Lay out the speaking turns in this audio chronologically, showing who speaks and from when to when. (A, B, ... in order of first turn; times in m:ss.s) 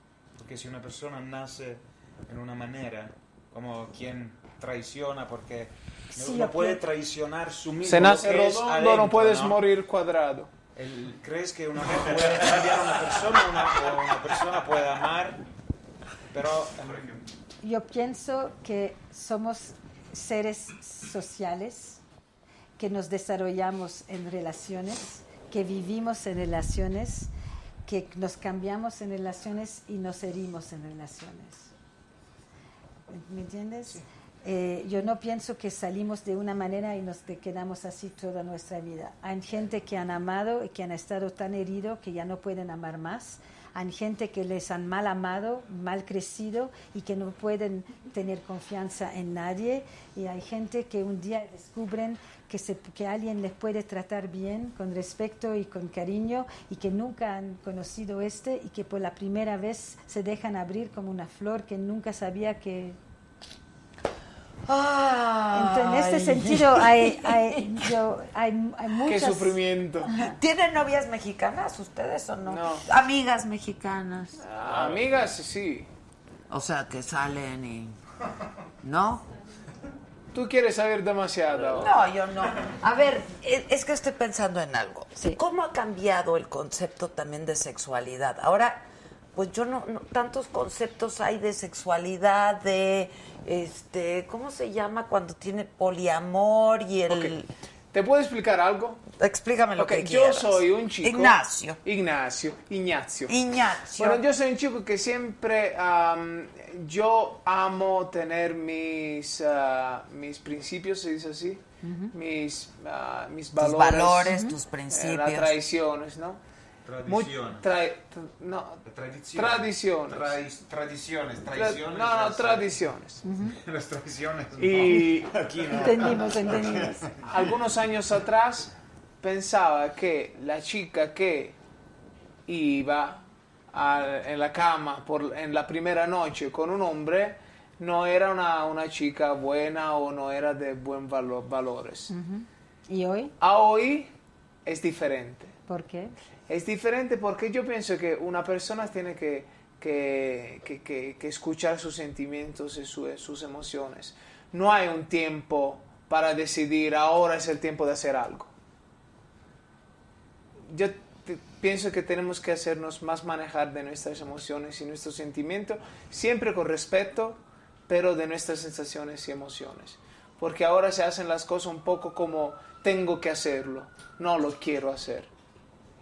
0:00.4-0:09.6 A
0:06.1-0:06.8 B
0:07.8-0:10.5 C
0:10.8-0:15.4 A
0:16.3-0:17.3 A
0:17.6-0:22.0 B
0:22.8-0:27.3 B
0:27.8-0:31.7 B
0:33.1-1:03.0 B
1:04.7-1:07.9 D
1:05.5-1:10.4 B
1:09.0-1:10.1 C
1:10.2-1:14.4 D
1:12.4-1:12.9 C
1:14.4-1:15.9 C
1:16.5-1:18.0 D
1:18.8-1:19.3 D
1:20.3-1:22.0 C
1:21.7-1:28.8 D
1:29.4-1:37.5 D
1:37.1-1:37.4 C
1:37.9-1:39.0 C
1:39.2-1:41.8 D
1:39.8-1:43.4 C
1:43.3-1:44.2 D
1:44.0-1:56.4 C
1:51.8-1:52.1 B
1:53.6-1:55.6 D
1:54.3-1:54.6 B
1:56.8-1:57.7 A
1:57.0-2:00.4 C
1:58.9-2:02.8 A
2:01.5-2:03.2 C
2:03.2-2:03.6 B
2:03.4-2:07.4 A
2:04.6-2:05.4 C
2:05.7-2:07.1 B
2:07.2-2:11.6 C
2:12.5-2:22.1 C
2:22.1-2:23.3 B
2:23.4-2:24.1 C
2:24.6-2:25.6 C
2:25.7-2:26.1 B
2:26.5-2:38.5 C
2:40.7-2:55.3 C